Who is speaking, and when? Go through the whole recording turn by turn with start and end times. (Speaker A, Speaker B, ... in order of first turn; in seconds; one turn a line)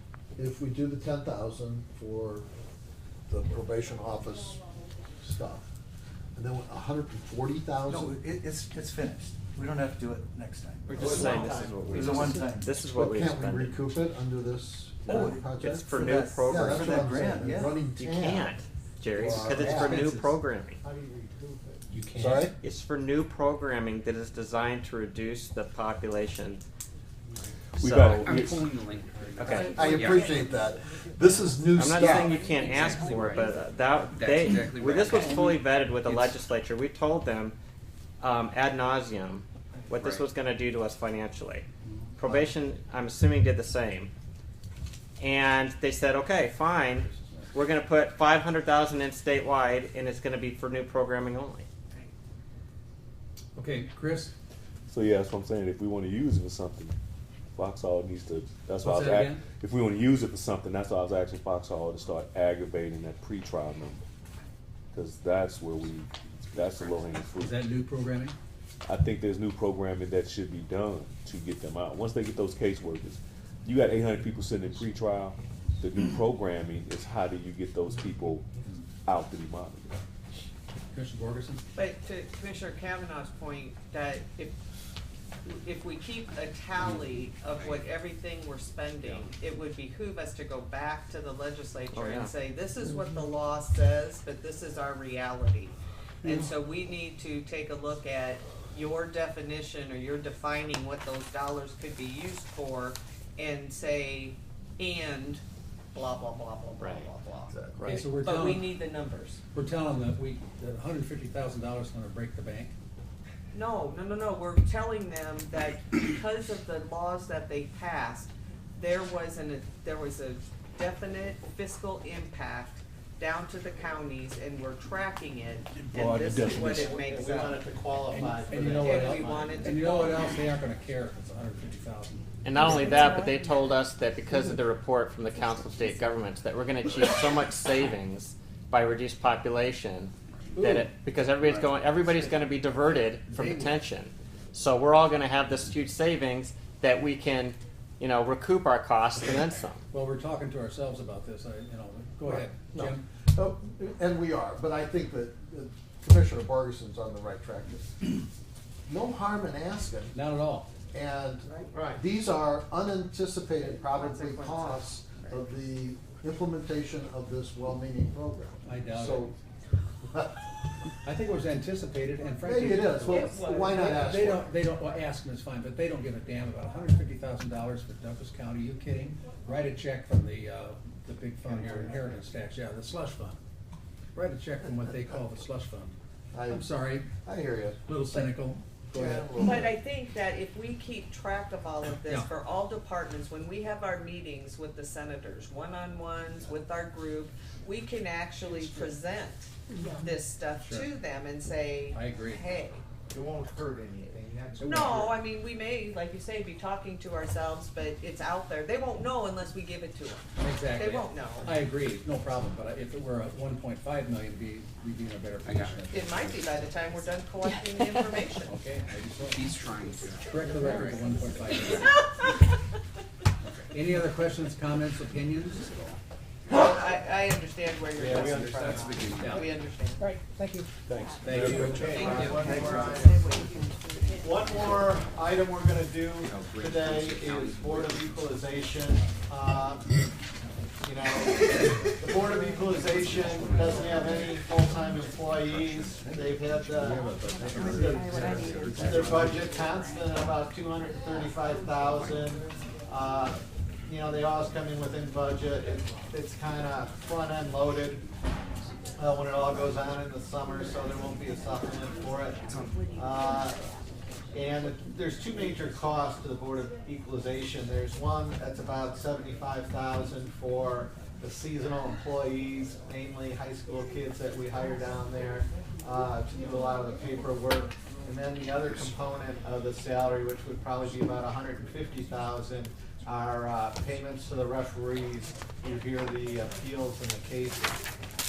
Speaker A: 0.4-2.5
Speaker A: 3.3-4.6
Speaker A: 5.2-5.7
Speaker A: 6.3-8.2
Speaker B: 7.9-12.8
Speaker C: 10.9-13.8
Speaker A: 11.0-18.6
Speaker B: 15.1-17.9
Speaker C: 15.6-17.2
Speaker C: 18.0-20.8
Speaker A: 19.1-20.2
Speaker A: 20.8-22.5
Speaker C: 22.6-26.6
Speaker D: 27.8-28.7
Speaker C: 27.8-28.3
Speaker E: 28.2-30.2
Speaker C: 29.4-29.7
Speaker A: 29.4-32.4
Speaker C: 31.8-37.6
Speaker E: 32.6-33.4
Speaker E: 34.1-35.6
Speaker C: 38.2-41.7
Speaker C: 42.2-44.1
Speaker C: 45.2-51.7
Speaker F: 53.6-54.3
Speaker D: 54.9-57.0
Speaker D: 57.6-64.0
Speaker F: 58.8-59.4
Speaker D: 64.9-67.6
Speaker F: 67.4-68.3
Speaker D: 68.8-78.5
Speaker D: 79.0-80.0
Speaker F: 80.9-81.6
Speaker G: 81.8-84.5
Speaker G: 85.5-105.4
Speaker C: 91.9-92.3
Speaker G: 105.9-107.5
Speaker C: 106.8-108.1
Speaker F: 107.8-108.8
Speaker G: 108.2-109.4
Speaker F: 109.5-112.7
Speaker G: 113.5-127.7
Speaker D: 125.8-126.9
Speaker H: 126.7-129.6
Speaker F: 128.1-132.3
Speaker G: 128.7-130.2
Speaker C: 132.4-149.8
Speaker F: 140.6-140.9
Speaker F: 143.3-143.8
Speaker F: 149.9-153.1
Speaker A: 152.3-158.2
Speaker A: 158.9-160.2
Speaker F: 160.1-160.7
Speaker A: 160.9-169.4
Speaker H: 161.7-162.0
Speaker G: 163.6-165.4
Speaker F: 168.6-169.3
Speaker A: 170.1-170.4
Speaker F: 171.0-183.4
Speaker A: 172.4-174.6
Speaker G: 173.1-174.0
Speaker F: 184.2-186.0
Speaker A: 186.3-188.2
Speaker F: 186.5-187.1
Speaker F: 187.9-188.6
Speaker A: 188.9-189.8
Speaker G: 188.9-202.8
Speaker F: 200.6-200.9
Speaker F: 201.9-202.5
Speaker G: 204.6-211.5
Speaker F: 204.6-205.0
Speaker F: 210.4-216.3
Speaker E: 215.5-215.8
Speaker G: 215.9-218.6
Speaker F: 218.4-219.5
Speaker E: 219.2-221.0
Speaker F: 220.2-222.0
Speaker F: 223.7-225.7
Speaker G: 226.5-230.1
Speaker H: 228.0-228.4
Speaker E: 228.5-229.3
Speaker F: 229.2-232.6
Speaker H: 231.3-233.2
Speaker G: 231.9-234.0
Speaker H: 234.2-239.9
Speaker E: 236.2-238.4
Speaker H: 240.8-258.1
Speaker B: 246.0-249.0
Speaker E: 247.8-249.1
Speaker H: 259.0-262.4
Speaker H: 262.9-263.6
Speaker H: 264.3-287.9